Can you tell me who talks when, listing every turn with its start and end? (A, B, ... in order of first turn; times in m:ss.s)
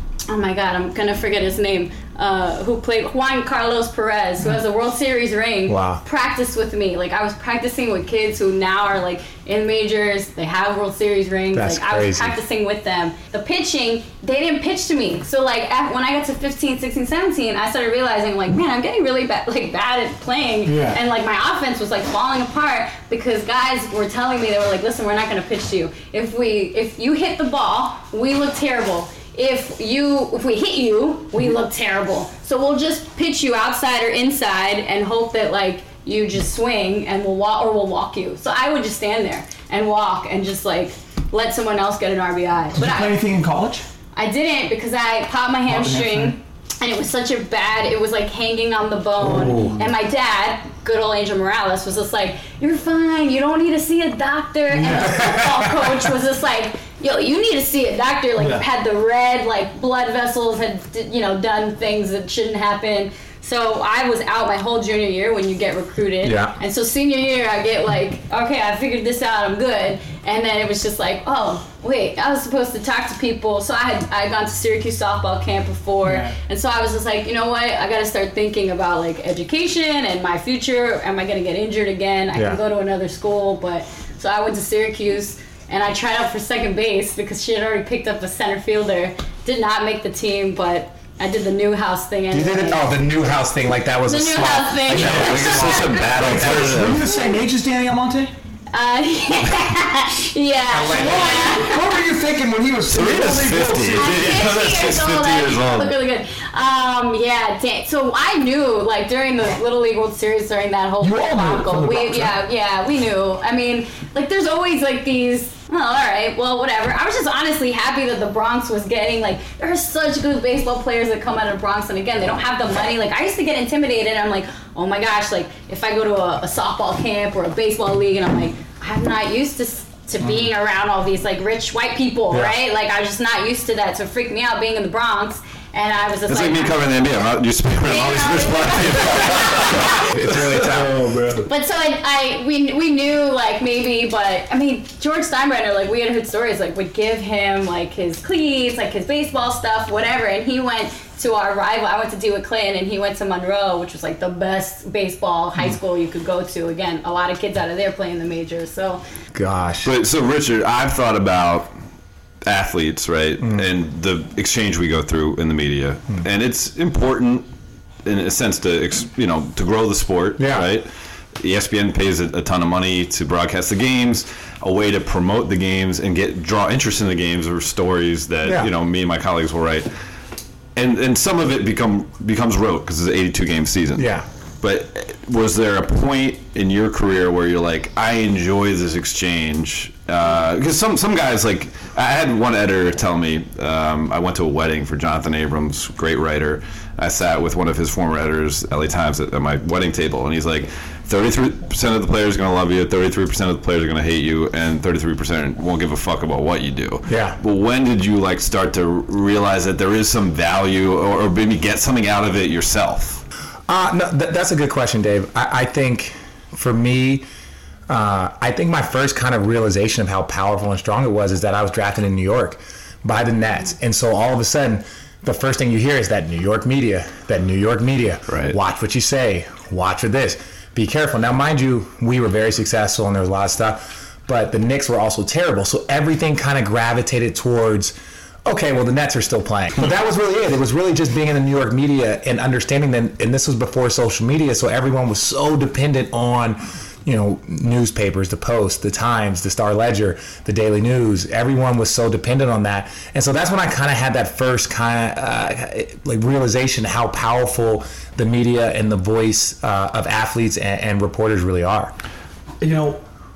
0:00.3-0:43.2 A
0:05.7-0:06.0 B
0:11.5-0:12.4 B
0:20.6-0:21.0 C
0:42.7-0:43.8 C
0:44.1-1:32.9 A
0:45.7-0:46.3 C
0:49.2-0:49.8 C
0:54.7-0:55.2 C
0:55.1-0:55.9 B
0:58.4-0:58.6 C
1:06.2-1:06.5 B
1:16.0-1:16.4 C
1:22.3-1:22.6 B
1:32.3-1:36.7 B
1:34.1-1:36.2 A
1:34.9-1:37.1 D
1:35.2-1:38.3 C
1:38.7-1:41.9 A
1:40.7-1:41.6 B
1:40.9-1:44.4 C
1:42.9-1:45.9 D
1:43.9-2:16.8 A
1:51.0-1:52.4 C
2:12.3-2:12.6 B
2:16.3-2:20.7 D
2:17.8-2:20.0 A
2:19.6-2:21.4 B
2:20.6-2:21.4 C
2:21.4-2:39.0 A
2:39.3-2:39.9 B
2:39.8-2:41.7 D
2:42.4-2:47.5 D
2:48.0-2:50.9 D
2:50.4-2:50.7 B
2:51.4-2:59.9 D
2:58.4-2:58.7 B
3:00.8-3:04.1 D
3:04.0-3:04.2 B
3:04.6-3:33.2 D
3:27.1-3:27.4 B
3:33.7-3:37.2 B
3:37.9-3:57.9 B
3:48.3-3:48.6 D
3:58.4-4:21.9 B
4:22.6-4:23.0 C